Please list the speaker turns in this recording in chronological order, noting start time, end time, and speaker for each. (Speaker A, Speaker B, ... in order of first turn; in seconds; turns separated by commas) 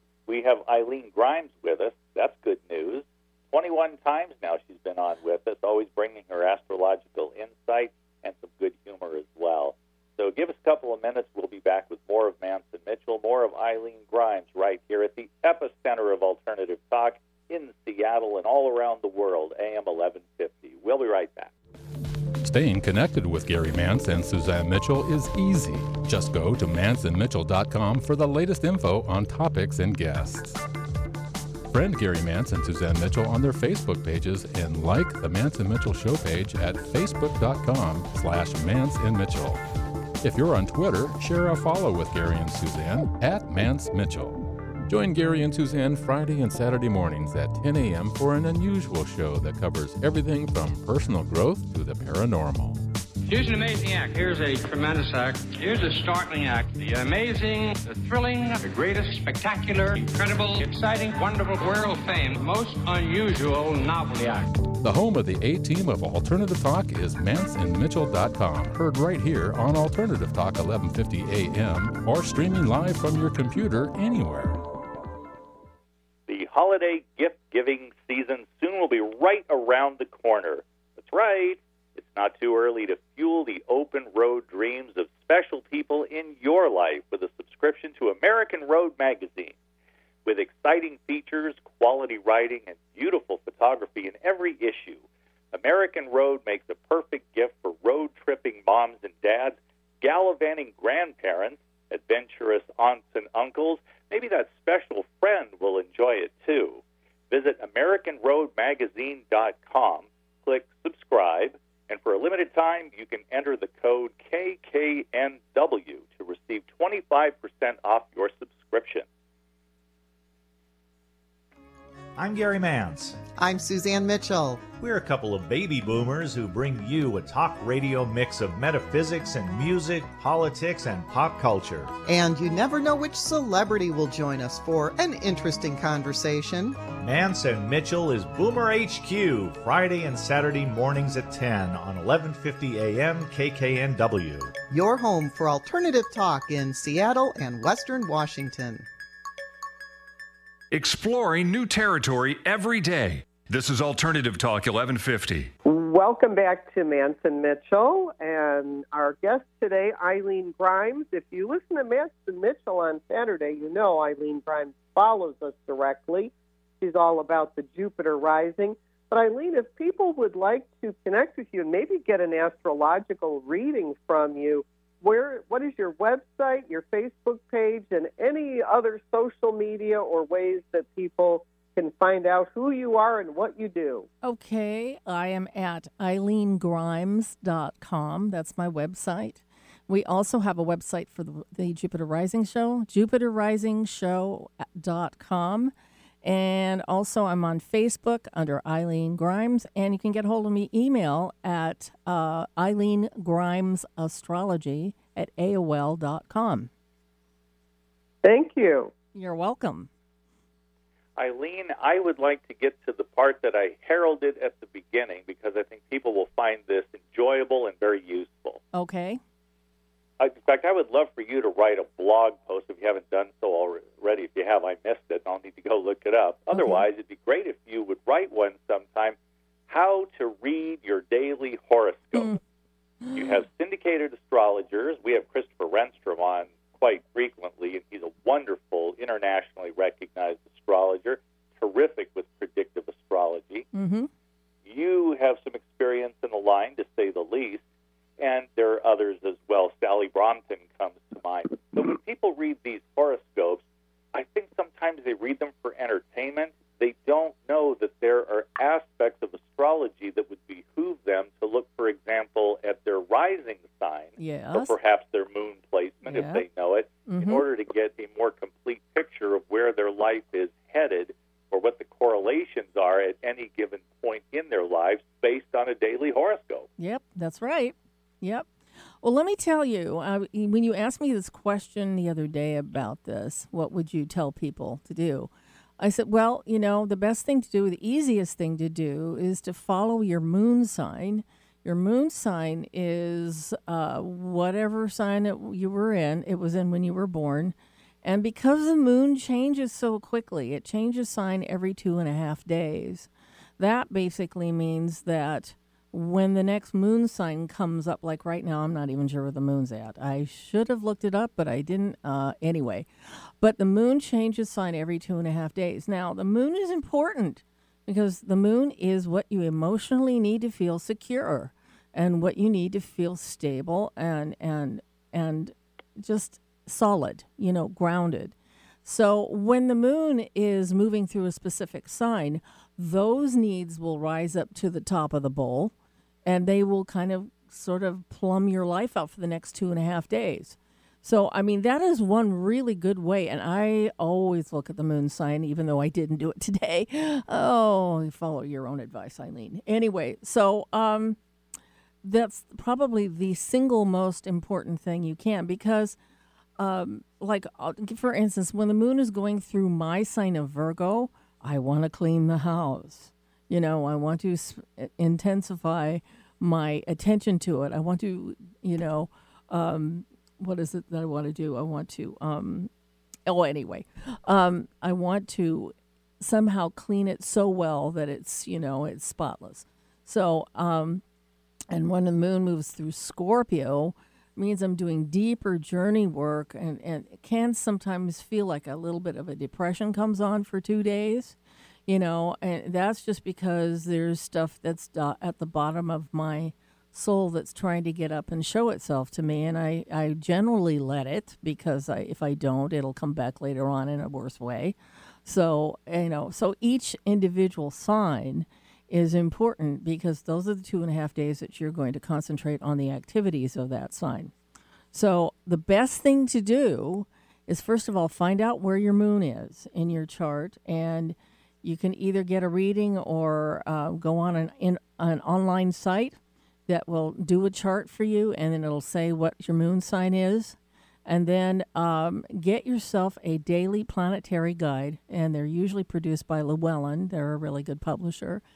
Speaker A: 0.3-21.5, Speaker B: 22.4-30.6, Speaker B: 31.7-39.6, Speaker B: 40.2-52.8, Speaker C: 53.2-64.6, Speaker B: 64.8-74.6, Speaker A: 76.3-89.5, Speaker A: 90.2-119.0, Speaker D: 122.2-123.2, Speaker E: 123.3-124.7, Speaker D: 124.7-131.9, Speaker E: 132.1-136.8, Speaker D: 137.0-144.5, Speaker E: 144.7-148.8, Speaker F: 150.7-155.5, Speaker G: 155.6-184.1, Speaker H: 184.2-206.7, Speaker G: 208.2-208.9, Speaker H: 209.1-209.9, Speaker A: 211.2-218.6, Speaker H: 218.7-219.2, Speaker A: 220.2-229.2, Speaker H: 226.5-226.9, Speaker A: 229.7-232.4, Speaker A: 233.1-243.7, Speaker H: 243.7-244.1, Speaker A: 244.7-247.6, Speaker A: 248.2-253.6, Speaker A: 254.1-276.7, Speaker H: 264.2-264.7, Speaker H: 266.1-266.4, Speaker H: 267.1-267.4, Speaker H: 276.8-278.5, Speaker H: 279.0-335.7, Speaker H: 336.2-351.2, Speaker H: 352.0-356.0, Speaker H: 356.6-372.7, Speaker H: 373.2-381.0, Speaker H: 381.7-414.3, Speaker H: 414.9-438.4